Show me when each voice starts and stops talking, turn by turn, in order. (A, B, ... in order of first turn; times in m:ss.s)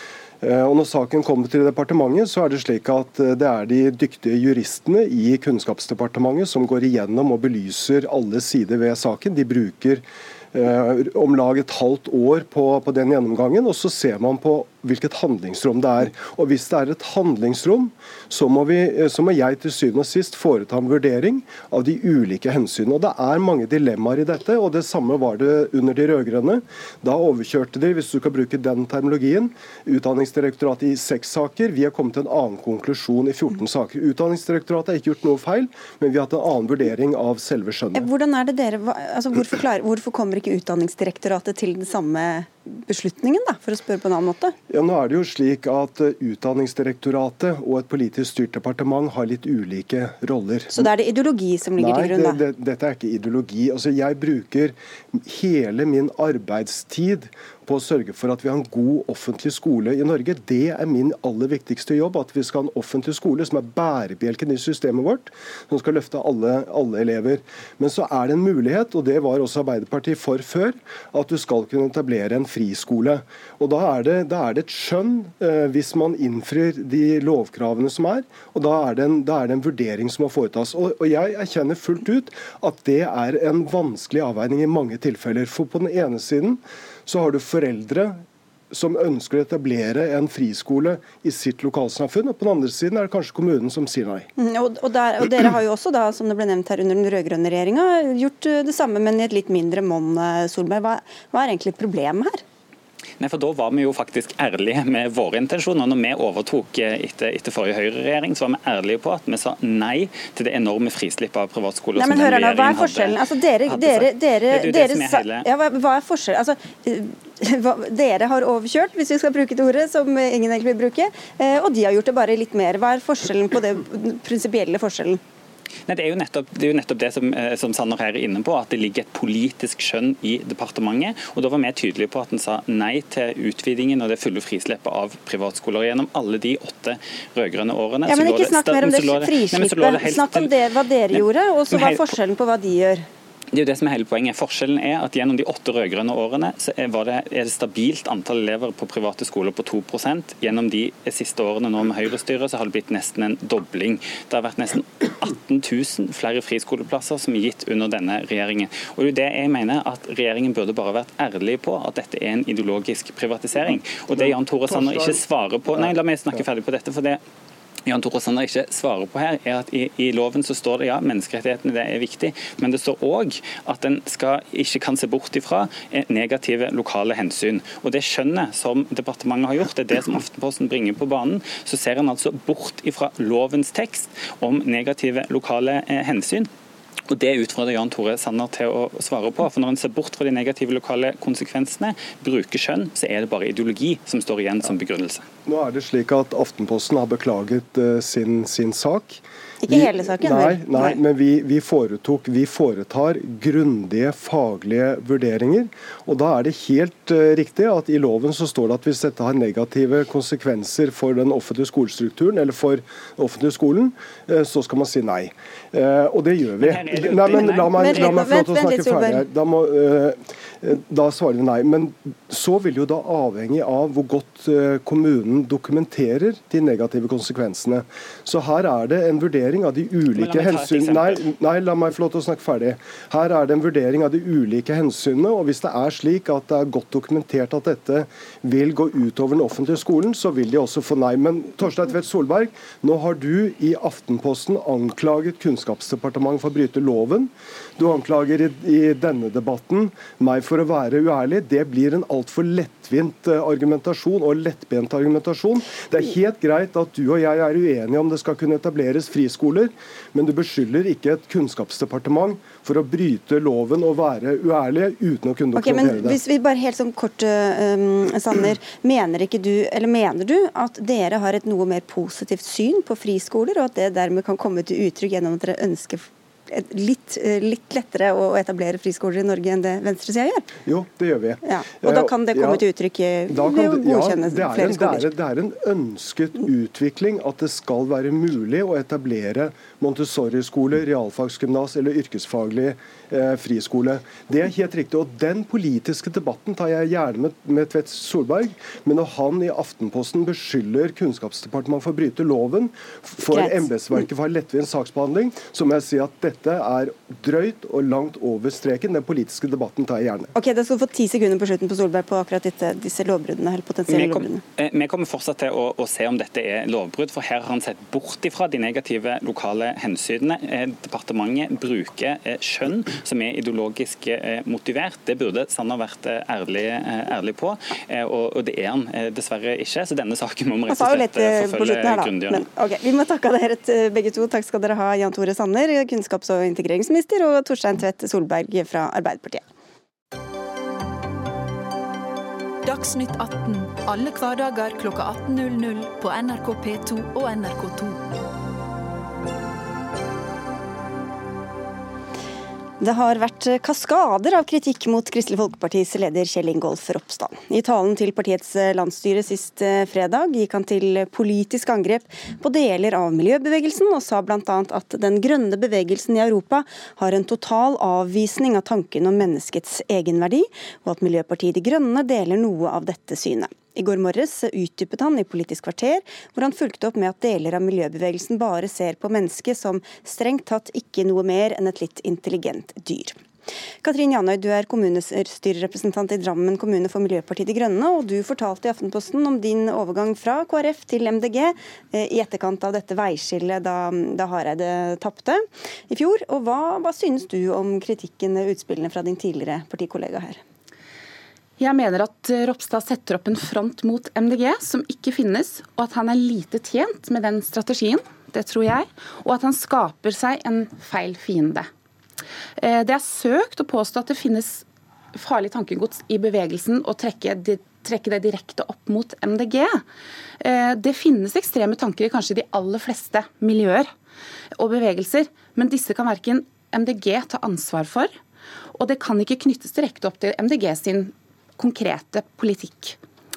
0:00.4-0:38.1 A
0:37.9-0:44.5 B
0:44.7-0:50.8 A
0:50.7-0:52.4 B
0:51.8-1:34.3 A
1:34.4-1:42.4 B
1:43.2-1:55.5 C
1:52.0-2:05.2 B
2:05.9-2:20.5 C
2:18.1-2:23.0 B
2:21.1-2:22.2 C
2:23.5-2:47.2 C
2:44.8-2:45.2 A
2:47.9-3:06.5 C
3:07.1-3:15.2 C
3:15.4-4:26.2 A
3:19.6-3:20.6 B
3:36.6-3:38.4 C
3:37.7-3:39.2 B
3:50.1-3:51.2 C
4:25.5-4:40.5 B
4:40.6-4:42.6 A
4:41.4-4:45.1 B
4:43.3-5:10.3 A
5:03.3-5:03.6 B
5:10.3-5:14.4 B
5:13.9-5:32.4 C
5:30.7-5:39.4 B
5:42.6-5:48.0 D
5:52.8-6:23.2 B
6:23.8-6:40.4 B
6:41.6-6:51.7 E
6:52.6-6:59.8 E
7:00.4-7:03.9 E
7:04.6-7:08.1 E
7:08.7-7:13.0 E